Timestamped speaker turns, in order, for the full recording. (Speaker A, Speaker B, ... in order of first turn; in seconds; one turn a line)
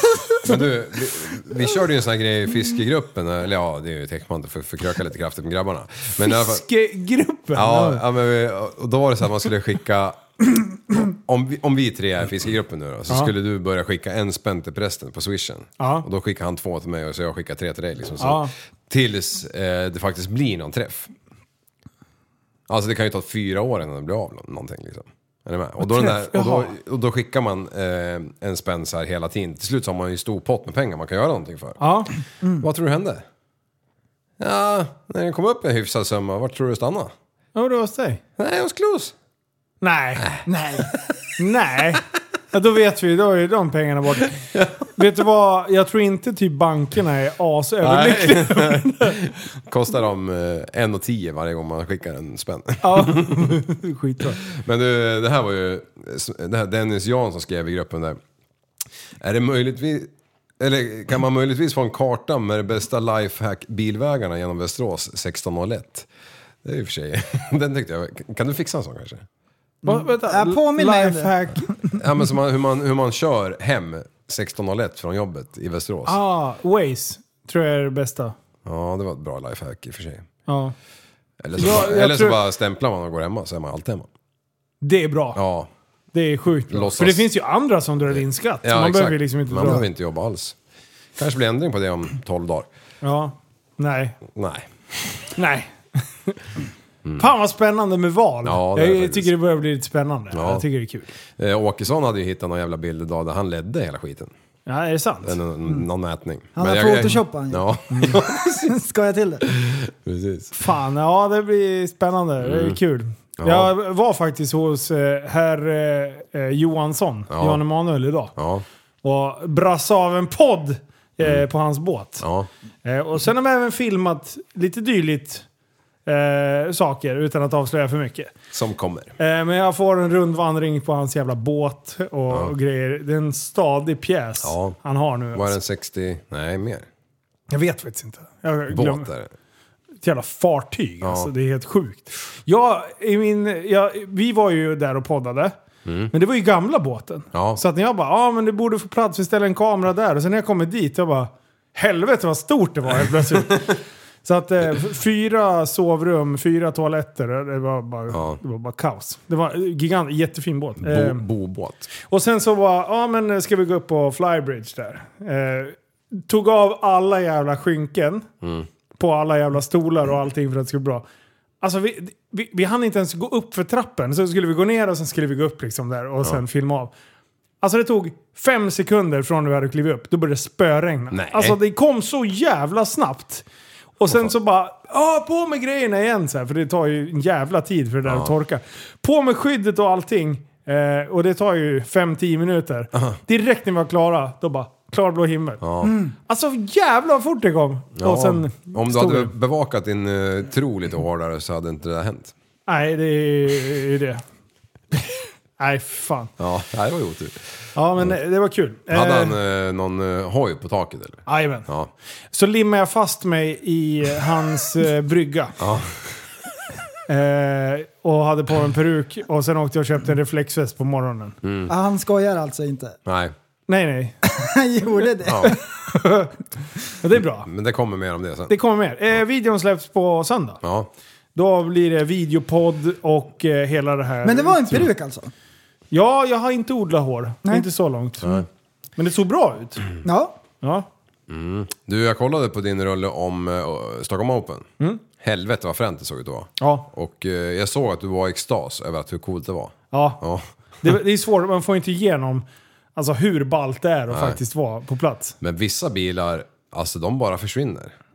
Speaker A: 0.4-6.6
Speaker B: 6.2-8.0
Speaker A: 7.5-21.1
Speaker B: 15.8-16.1
Speaker B: 18.2-18.5
Speaker A: 22.7-32.1
Speaker B: 25.8-26.7
Speaker B: 31.8-32.1
Speaker A: 32.6-33.2
Speaker A: 34.4-37.1
Speaker B: 37.5-38.2
Speaker A: 38.4-39.1
Speaker B: 39.8-40.3
Speaker A: 40.1-40.4
Speaker C: 40.5-40.9
Speaker B: 41.4-49.3
Speaker A: 44.5-44.8
Speaker A: 47.8-53.6
Speaker B: 52.8-54.4
Speaker A: 54.5-58.2
Speaker A: 59.2-66.1
Speaker A: 66.6-69.2
Speaker B: 69.8-71.6
Speaker C: 69.8-72.0
Speaker A: 72.0-76.2
Speaker B: 76.0-78.3
Speaker A: 78.6-80.3
Speaker B: 80.5-80.7
Speaker A: 81.4-84.1
Speaker B: 81.6-82.4
Speaker B: 84.8-85.4
Speaker A: 85.3-85.7
Speaker B: 86.1-89.8
Speaker A: 86.7-87.2
Speaker A: 88.1-90.5
Speaker A: 91.2-92.7
Speaker B: 93.0-94.2
Speaker A: 94.3-95.3
Speaker B: 95.3-96.4
Speaker A: 97.0-97.3
Speaker B: 97.2-101.1
Speaker A: 98.4-99.3
Speaker A: 100.3-100.6
Speaker A: 101.4-104.3
Speaker B: 104.7-105.4
Speaker A: 105.2-108.5
Speaker C: 106.5-109.5
Speaker B: 107.9-108.2
Speaker A: 109.5-110.5
Speaker B: 110.5-118.3
Speaker A: 112.4-112.8
Speaker A: 113.4-113.7
Speaker A: 117.3-117.6
Speaker A: 118.3-118.6
Speaker B: 119.0-122.2
Speaker A: 122.2-122.5
Speaker B: 122.8-125.4
Speaker B: 126.0-128.3
Speaker A: 128.5-129.1
Speaker B: 129.2-135.6
Speaker A: 134.4-134.8
Speaker A: 135.3-136.9
Speaker B: 137.5-139.1
Speaker A: 138.7-139.3
Speaker B: 140.0-145.5
Speaker A: 141.0-141.3
Speaker A: 145.8-146.1
Speaker B: 146.1-161.2
Speaker A: 147.3-147.6
Speaker A: 158.1-158.4
Speaker A: 160.8-161.9
Speaker B: 162.1-168.2
Speaker A: 168.4-168.7
Speaker B: 169.0-171.0
Speaker B: 171.6-176.9
Speaker B: 177.6-183.4
Speaker A: 181.1-181.6
Speaker B: 184.0-199.3
Speaker A: 188.0-188.3
Speaker A: 195.6-195.9
Speaker C: 195.8-196.1
Speaker A: 198.0-202.3
Speaker B: 202.7-204.2
Speaker B: 204.9-206.3
Speaker A: 206.4-207.4
Speaker B: 207.7-209.3
Speaker A: 208.9-211.9
Speaker B: 211.3-211.7
Speaker B: 212.3-215.6
Speaker A: 215.6-216.2
Speaker B: 217.1-221.3
Speaker A: 221.4-221.7
Speaker C: 221.7-223.0
Speaker A: 223.1-223.3
Speaker B: 223.7-224.2
Speaker C: 224.2-225.6
Speaker A: 225.2-225.6
Speaker B: 225.9-226.3
Speaker B: 226.9-227.5
Speaker A: 227.4-228.5
Speaker B: 228.5-230.6
Speaker A: 230.6-230.9
Speaker B: 231.3-234.9
Speaker C: 234.2-235.3
Speaker B: 235.9-239.9
Speaker C: 240.0-240.4
Speaker B: 240.6-240.9
Speaker A: 241.3-244.7
Speaker A: 245.2-250.4
Speaker B: 246.6-246.9
Speaker B: 249.9-250.2
Speaker B: 250.8-255.3
Speaker A: 254.1-254.4
Speaker A: 255.4-257.9